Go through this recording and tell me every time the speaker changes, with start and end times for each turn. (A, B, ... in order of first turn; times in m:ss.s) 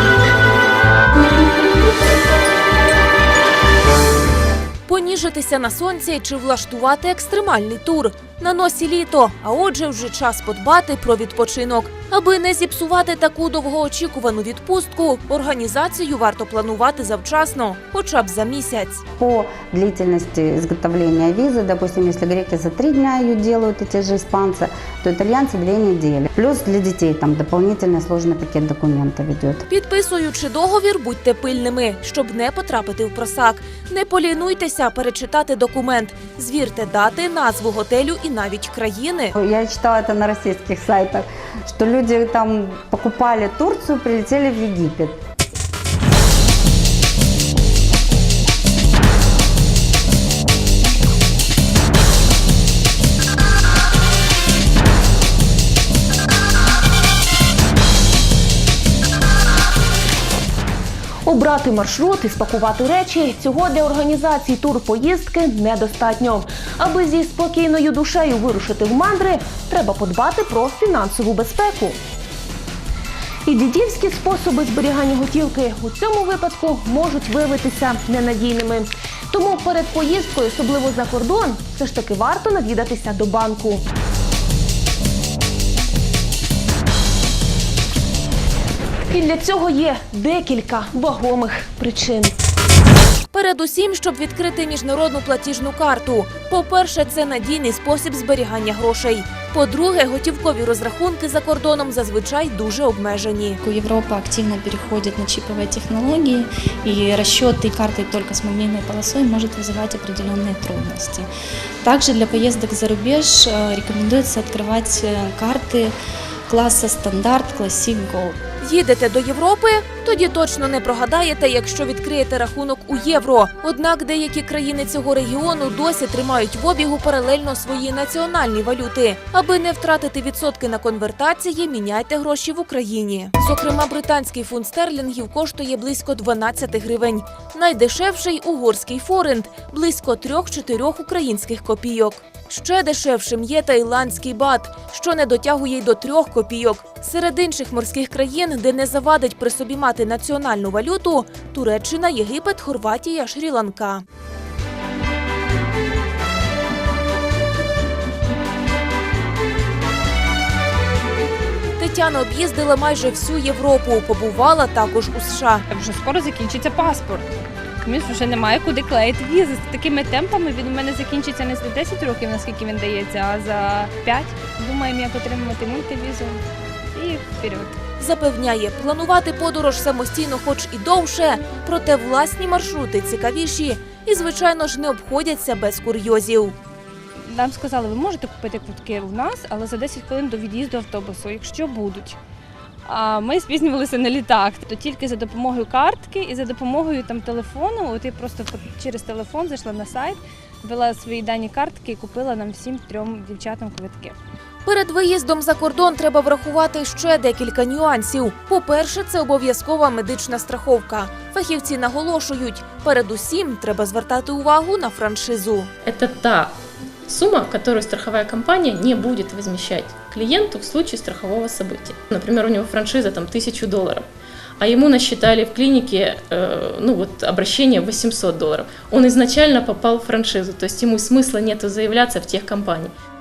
0:04.9-0:19.0 A
0:19.2-0:29.6 B
0:29.7-0:39.3 A
0:39.4-0:45.2 B
1:01.2-1:12.0 C
1:13.5-1:23.8 C
1:29.1-1:32.3 C
1:33.3-1:43.6 A
1:43.6-1:51.3 D
1:51.8-1:56.0 D
1:56.5-1:58.4 D
1:58.6-2:34.0 A
2:41.8-2:45.6 A
2:45.7-2:47.3 E
2:47.8-2:57.8 E
2:58.0-3:06.5 A
3:07.2-3:12.2 E
3:12.8-3:24.2 E
3:24.6-3:35.7 A
3:35.8-3:36.5 F
3:37.1-3:44.0 F
3:44.6-3:52.9 F